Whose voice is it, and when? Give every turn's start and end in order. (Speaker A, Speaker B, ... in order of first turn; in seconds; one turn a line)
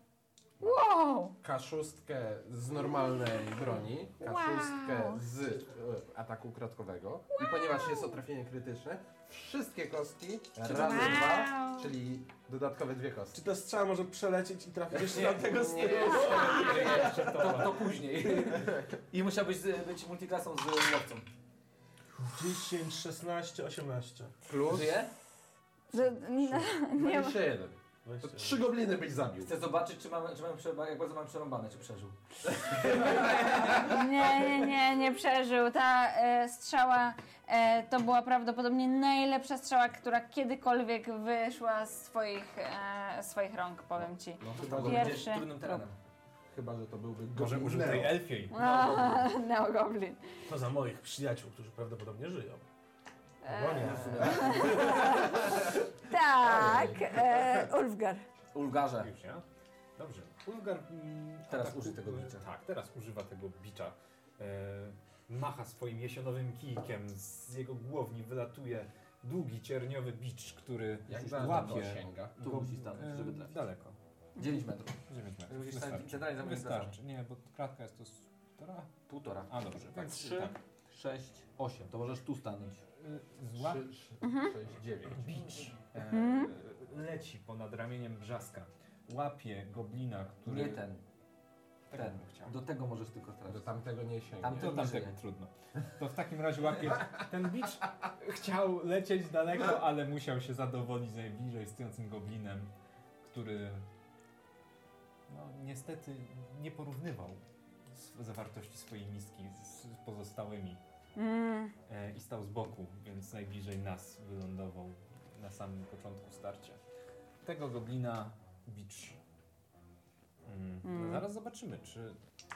Speaker A: 0.6-1.3
Speaker B: 1.4-13.4
Speaker A: 4.2-5.2
Speaker A: 7.3-8.2
Speaker C: 10.6-11.4
Speaker A: 10.7-11.9
Speaker D: 13.3-17.6
Speaker B: 14.9-17.5
Speaker C: 16.1-21.3
Speaker E: 16.4-17.9
Speaker D: 18.2-18.5
Speaker B: 18.5-18.9
Speaker D: 22.1-24.3
Speaker B: 24.5-25.1
Speaker C: 24.6-25.1
Speaker A: 25.9-27.4
Speaker B: 26.4-29.5
Speaker D: 28.0-28.6
Speaker C: 29.4-34.5
Speaker B: 32.7-33.7
Speaker A: 33.8-45.9
Speaker B: 44.4-45.3
Speaker C: 44.5-46.0
Speaker B: 46.5-48.2
Speaker E: 47.3-49.1
Speaker A: 48.5-50.2
Speaker C: 48.6-49.2
Speaker D: 50.5-52.6
Speaker A: 53.4-58.2
Speaker D: 53.4-55.3
Speaker C: 53.8-55.1
Speaker B: 53.9-55.5
Speaker B: 56.4-57.5
Speaker C: 58.5-59.1
Speaker E: 59.0-59.4
Speaker E: 60.0-74.0
Speaker C: 61.5-62.4
Speaker B: 71.1-72.3
Speaker C: 71.3-71.8
Speaker C: 72.4-73.5
Speaker C: 74.3-77.0
Speaker E: 75.1-78.9
Speaker C: 79.1-82.8
Speaker E: 79.5-80.5
Speaker E: 82.9-83.8
Speaker B: 83.5-85.7
Speaker A: 84.2-84.5
Speaker E: 85.2-90.8
Speaker C: 85.9-86.4
Speaker A: 86.1-86.5
Speaker C: 90.4-91.0
Speaker E: 91.9-92.5
Speaker C: 91.9-93.8
Speaker B: 93.5-94.8
Speaker C: 94.4-95.2
Speaker E: 94.4-102.7
Speaker E: 103.2-103.9
Speaker E: 105.3-110.8
Speaker A: 111.2-111.7
Speaker E: 111.9-116.8
Speaker E: 117.4-119.2
Speaker E: 120.4-122.2
Speaker A: 120.8-121.2